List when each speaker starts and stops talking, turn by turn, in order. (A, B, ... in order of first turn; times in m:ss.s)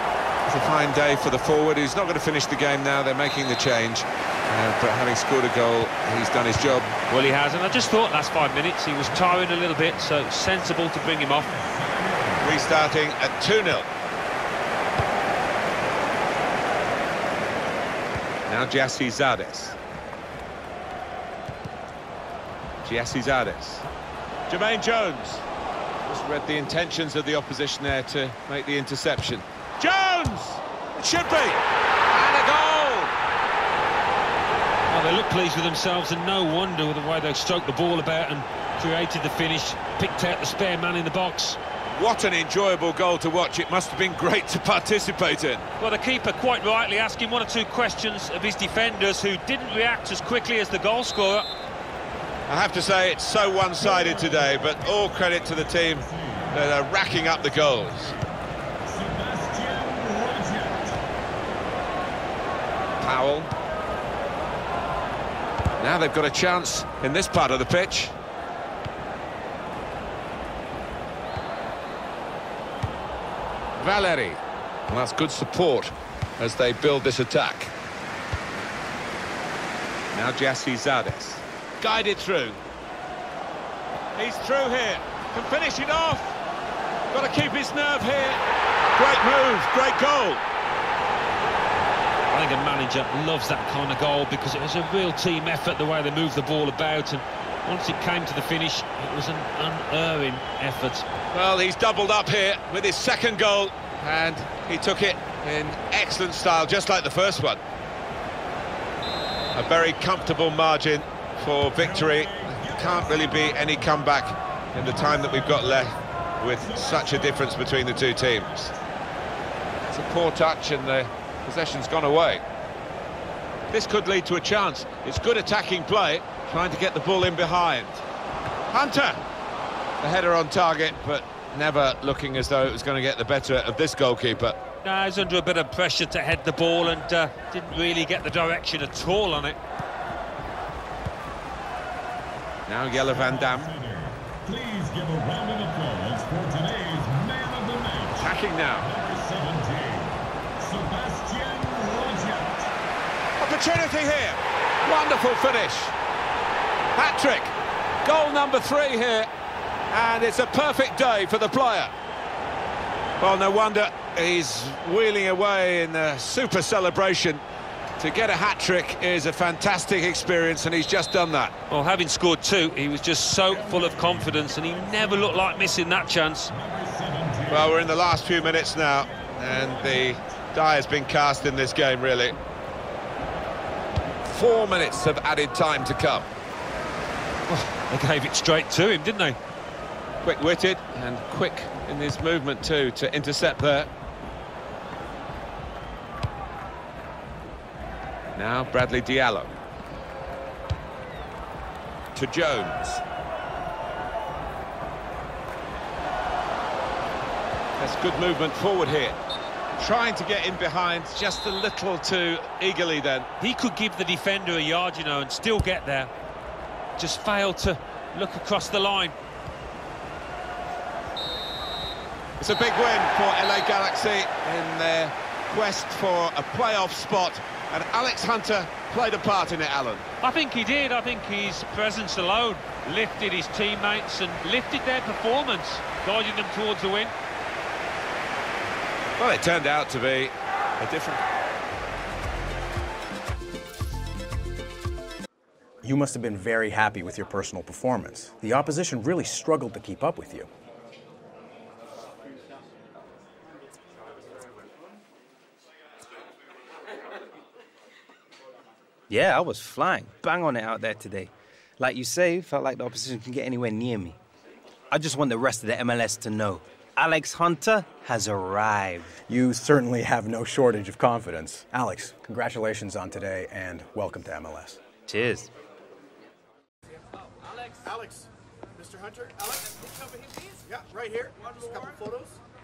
0:00.5-0:06.9 A
0:07.1-0:11.6 B
0:11.5-0:12.6 C
0:12.4-0:13.9 A
0:18.5-0:19.8 A
0:22.8-0:23.9 A
0:24.5-0:25.5 A
0:26.1-0:33.1 A
0:34.9-0:41.6 B
0:41.9-0:45.7 A
0:45.8-0:51.5 B
0:52.5-0:58.2 A
0:53.8-0:58.3 C
0:58.9-1:01.0 C
1:03.0-1:03.5 A
1:05.8-1:08.2 A
1:13.8-1:17.7 A
1:20.1-1:22.6 A
1:24.2-1:26.4 A
1:27.1-1:28.4 A
1:29.0-1:30.4 A
1:32.3-1:41.1 B
1:41.3-1:47.6 A
1:49.6-1:58.7 A
1:51.8-1:54.0 C
1:54.8-1:55.9 C
1:56.5-1:58.7 C
1:59.9-2:02.4 A
2:03.7-2:08.0 A
2:08.7-2:09.2 A
2:10.0-2:14.6 A
2:14.8-2:19.6 B
2:22.7-2:23.7 A
2:22.9-2:32.7 C
2:28.2-2:28.9 A
2:33.4-2:35.9 A
2:36.9-2:39.3 A
2:39.9-2:41.9 A
2:43.2-2:47.4 A
2:48.0-2:51.6 A
2:51.7-2:56.5 B
2:53.5-2:55.8 C
2:56.5-3:00.4 C
2:57.5-3:02.4 A
3:04.2-3:06.3 A
3:07.5-3:09.4 B
3:10.2-3:13.9 A
3:18.4-3:19.5 A
3:22.1-3:23.0 A
3:27.8-3:29.2 A
3:29.8-3:33.3 A
3:33.4-3:36.1 B
3:37.0-3:39.1 B
3:42.4-3:50.1 A
3:50.2-3:57.1 B
3:59.2-4:01.2 A
4:05.8-4:10.5 D
4:19.1-4:24.2 E
4:24.9-4:29.1 E
4:29.3-4:34.8 D
4:35.1-4:35.5 E
4:38.9-4:39.4 F
4:40.8-4:42.3 F